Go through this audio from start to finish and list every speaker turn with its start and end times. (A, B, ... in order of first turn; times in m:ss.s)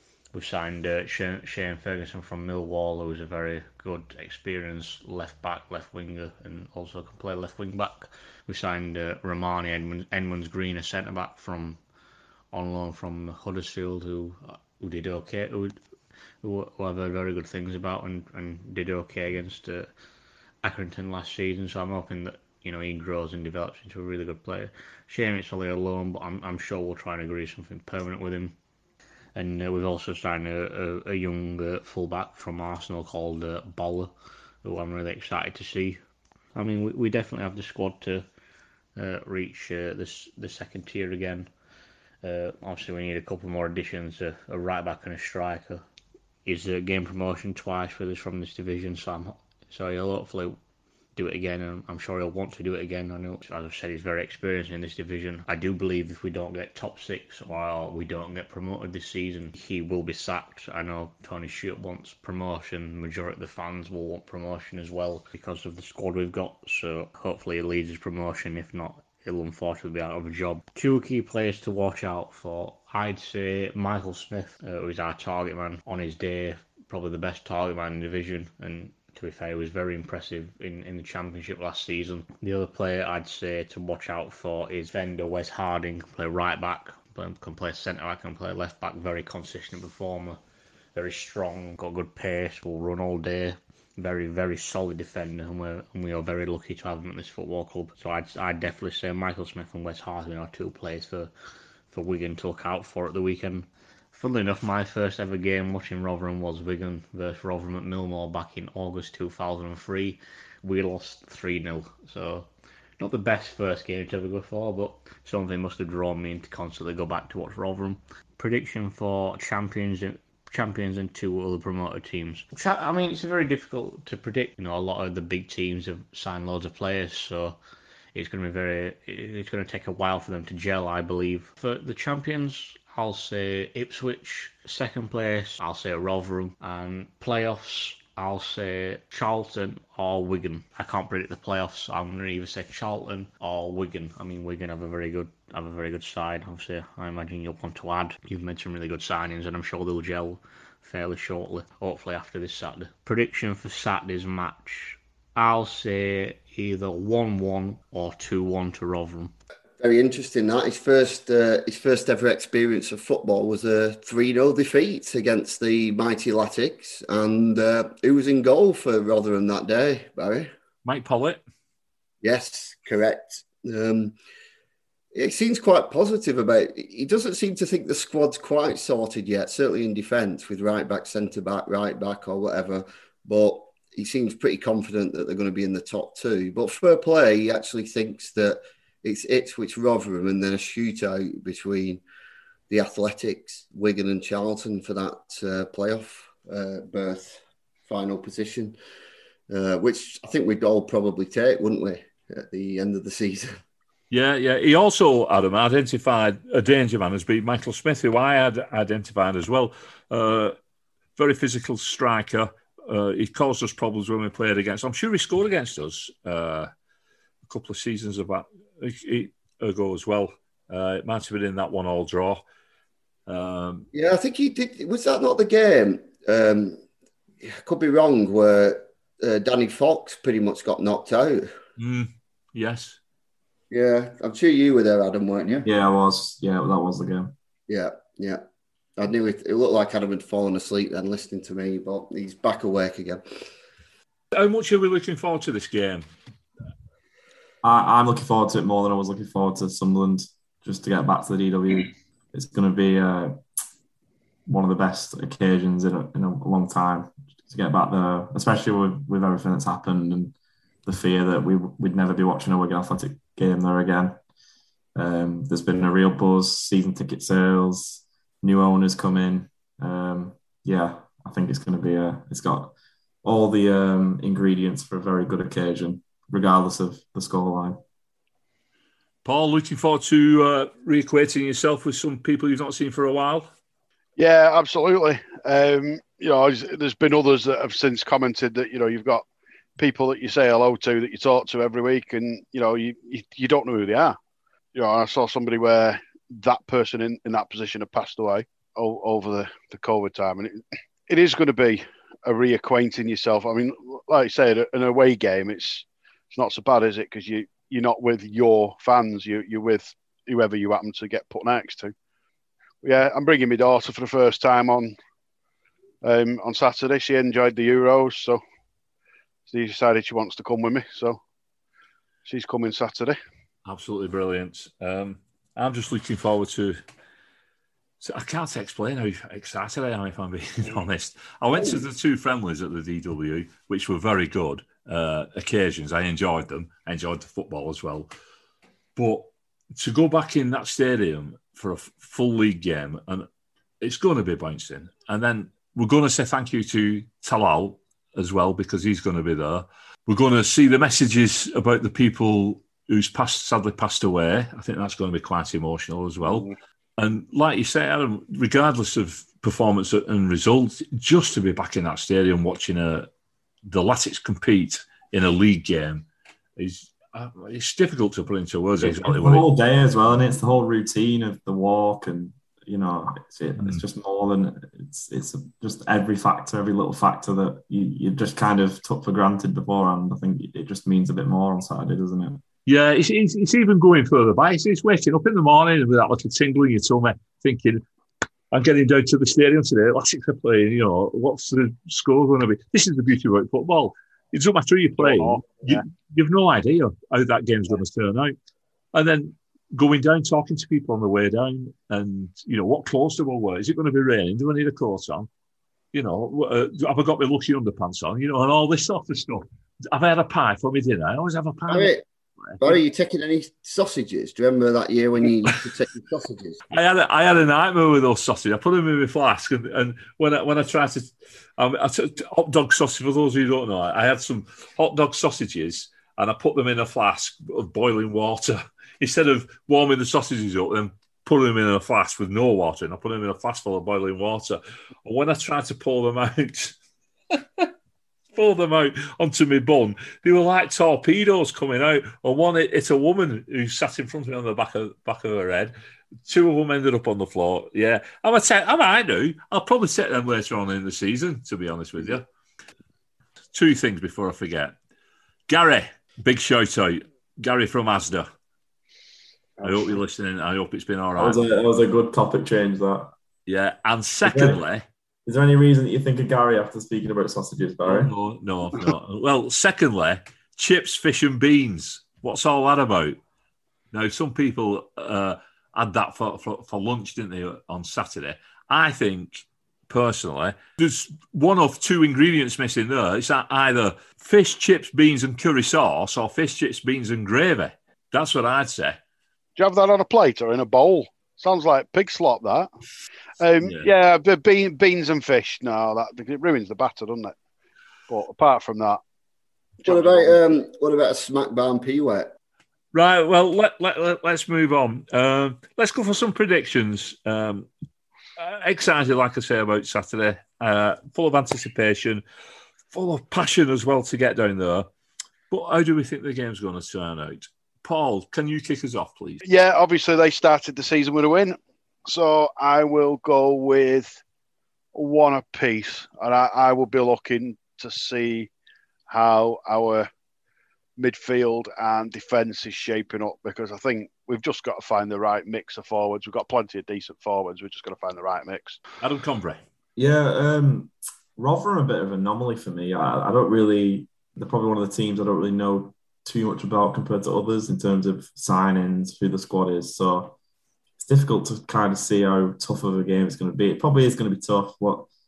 0:00.3-0:11.8 A
0:12.5-0:15.8 A
0:16.4-0:19.9 A
0:20.6-0:28.5 A
0:29.4-0:34.1 A
0:34.6-0:36.0 A
0:36.5-0:38.2 A
0:39.0-0:41.5 A
0:42.2-0:45.8 A
0:46.4-0:50.6 A
0:51.2-1:30.4 A
1:30.9-1:41.3 A
1:41.9-2:07.6 A
2:08.1-2:39.3 A
2:39.8-2:50.5 B
2:50.8-2:51.4 C
2:52.2-2:54.2 B
2:55.1-3:12.0 B
3:12.7-3:18.8 B
3:19.5-3:23.6 B
3:24.1-3:30.5 C
3:31.2-3:36.7 C
3:37.4-3:42.4 C
3:43.3-3:43.9 C
3:43.9-3:46.8 B
3:47.4-3:51.5 B
3:51.8-3:53.0 C
3:53.7-3:55.7 B
3:55.6-3:57.3 D
3:57.7-3:58.4 B
3:59.0-4:03.2 B
4:04.3-4:06.0 C
4:07.6-4:13.4 D
4:14.5-4:20.3 D
4:20.8-4:24.2 D
4:25.0-4:37.8 D
4:39.2-4:43.5 C
4:44.2-4:49.2 E
4:49.8-4:54.2 E
4:54.7-5:11.9 E
5:12.8-5:15.0 E
5:16.0-5:18.4 E
5:19.5-5:21.2 E
5:22.2-5:23.2 E
5:23.6-5:26.8 C
5:28.0-5:38.1 C
5:39.0-5:43.3 C
5:43.8-6:03.1 C
6:03.6-6:09.5 C
6:08.8-6:22.4 D
6:22.6-6:27.8 C
6:28.5-6:38.3 C
6:35.0-6:35.8 E
6:38.9-6:45.3 C
6:45.9-6:51.9 C
6:51.7-6:52.0 B
6:52.5-6:52.8 C
6:52.6-6:56.6 B
6:56.7-7:16.8 C
7:17.3-7:17.7 C
7:18.3-7:25.7 C
7:26.2-7:32.2 C
7:33.5-7:34.7 C
7:35.5-7:38.3 C
7:39.6-7:41.4 C
7:41.2-7:43.1 D
7:43.5-7:44.8 C
7:44.2-7:44.6 D
7:45.2-7:48.1 D
7:47.8-7:53.2 C
7:53.9-8:09.0 C
8:09.6-8:12.7 E
8:13.4-8:17.4 E
8:13.6-8:13.9 C
8:18.1-8:19.0 E
8:19.8-8:20.4 E
8:19.8-8:22.3 B
8:22.9-8:27.7 C
8:28.4-8:32.2 C
8:32.9-8:34.9 C
8:35.5-8:39.4 C
8:39.4-8:44.2 E
8:44.9-8:48.5 E
8:49.1-8:50.1 E
8:51.0-8:58.8 E
8:59.0-8:59.6 C
9:00.0-9:10.3 D
9:11.0-9:15.1 D